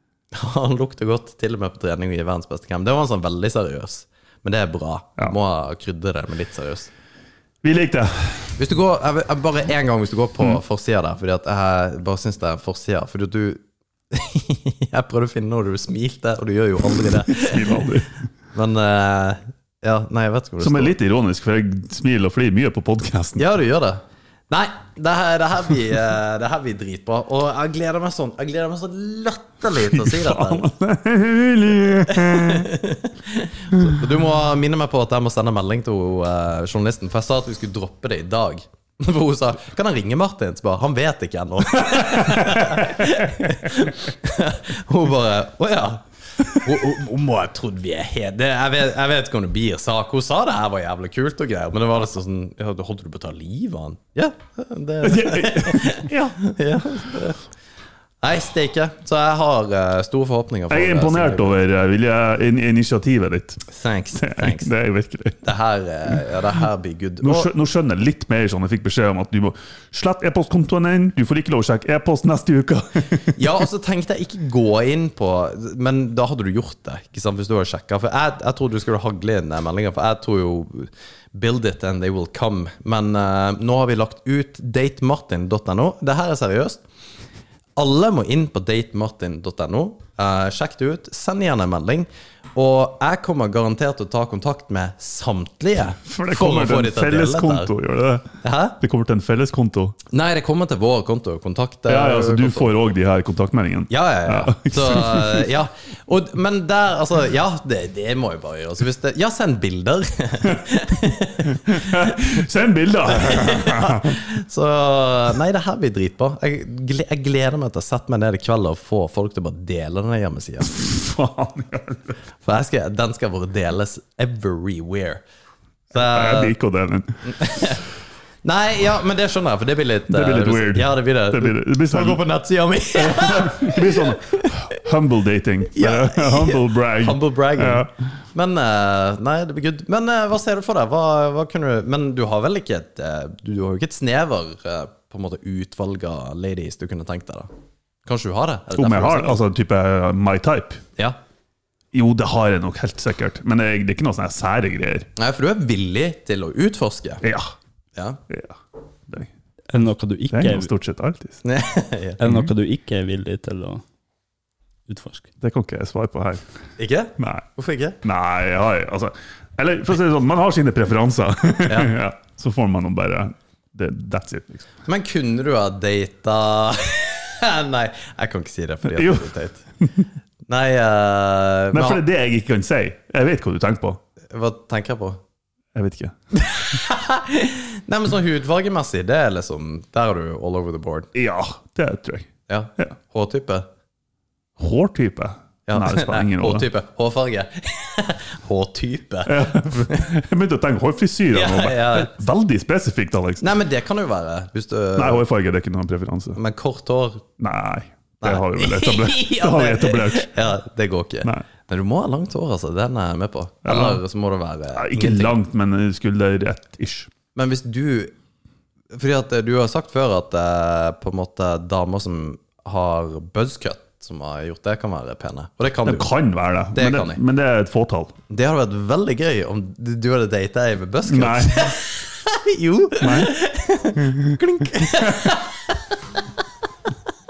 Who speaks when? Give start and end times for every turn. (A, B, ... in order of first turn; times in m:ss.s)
0:00.3-0:06.9 A
0:07.6-0:08.6 B
0:08.6-0:17.8 A
0:17.1-0:18.1 B
0:18.5-0:20.9 A
0:20.6-0:23.5 B
0:23.4-0:30.7 A
0:29.7-0:32.7 B
0:32.1-0:57.4 A
0:41.8-0:43.5 B
0:55.0-0:56.4 B
0:58.2-1:01.6 A
1:00.7-1:03.6 B
1:03.7-1:04.7 A
1:04.2-1:05.4 B
1:05.4-1:07.5 A
1:07.2-1:13.3 B
1:13.3-1:26.8 A
1:27.8-1:37.7 A
1:36.0-1:40.0 B
1:38.4-1:38.8 A
1:40.1-1:42.7 A
1:41.9-1:45.5 B
1:43.9-1:52.2 A
1:51.6-1:54.2 B
1:53.1-2:00.8 A
2:00.6-2:02.2 B
2:02.4-2:05.2 A
2:05.9-2:06.5 A
2:05.9-2:07.7 B
2:07.2-2:07.8 A
2:08.4-2:14.5 A
2:10.1-2:12.2 B
2:13.0-2:17.9 B
2:15.7-2:27.5 A
2:28.0-2:29.4 A
2:28.7-2:30.8 B
2:31.9-2:35.1 B
2:35.2-2:37.2 A
2:37.2-2:37.5 B
2:38.3-2:38.6 B
2:39.7-2:40.7 C
2:40.3-2:41.4 B
2:41.4-2:42.2 A
2:42.2-2:43.8 C
2:42.2-2:42.5 B
2:44.9-2:45.3 C
2:45.4-2:46.4 B
2:46.8-2:48.0 A
2:47.2-2:47.4 B
2:48.0-2:54.6 B
2:51.6-2:51.9 A
2:54.8-2:59.6 A
2:58.8-2:59.3 B
2:59.8-3:00.1 B
3:00.5-3:02.0 A
3:01.7-3:04.0 B
3:04.3-3:05.2 A
3:05.7-3:06.1 B
3:06.3-3:11.1 A
3:11.1-3:12.9 B
3:12.5-3:13.7 A
3:14.6-3:16.6 B
3:15.7-3:20.1 A
3:19.2-3:23.4 B
3:21.3-3:22.1 A
3:23.4-3:25.2 A
3:25.0-3:26.4 B
3:26.3-3:27.3 A
3:27.4-3:30.3 B
3:28.2-3:35.3 A
3:33.6-3:34.0 B
3:34.7-3:37.1 B
3:37.3-3:38.1 A
3:38.9-3:46.1 A
3:45.8-3:48.1 B
3:46.7-3:47.2 A
3:48.3-3:55.9 A
3:51.1-3:51.7 B
3:53.0-3:53.4 B
3:53.9-3:55.2 B